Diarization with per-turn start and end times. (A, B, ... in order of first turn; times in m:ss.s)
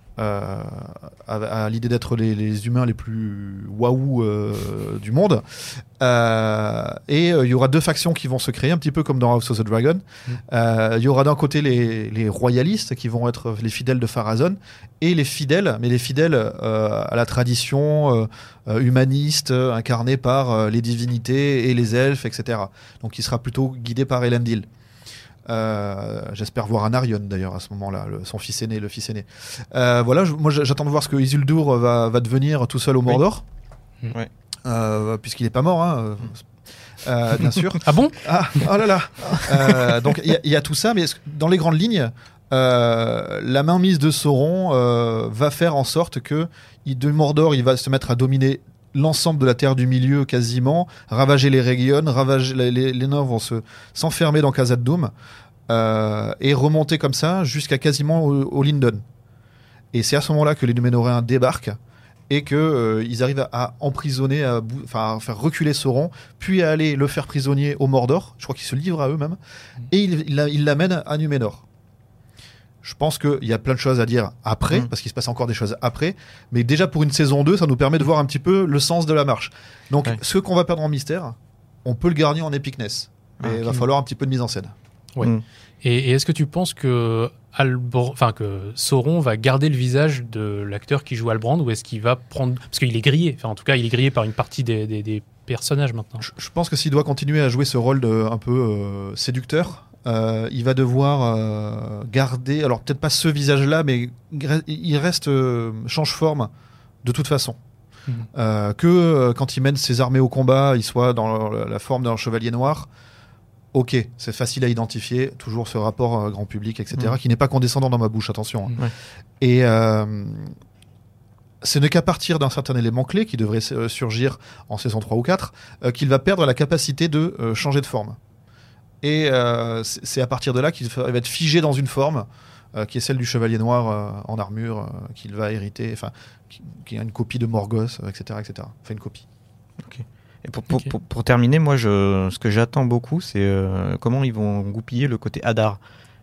0:00.2-0:24.7 A
0:25.5-0:33.4 A
0:34.7-0:36.4 A
0:37.0-0:55.1 A
0:37.8-0:38.2 B
0:55.7-0:59.0 A
0:59.9-1:01.8 A
1:02.3-1:09.4 A
1:09.9-1:11.6 A
1:12.8-1:24.7 A
1:23.4-1:23.8 C
1:25.2-1:36.3 B
1:36.2-1:46.5 A
1:47.0-1:47.6 A
1:48.3-1:52.9 A
1:53.7-1:58.7 A
1:59.4-2:00.5 A
2:01.6-2:08.2 A
2:09.0-2:19.2 A
2:19.8-2:25.8 C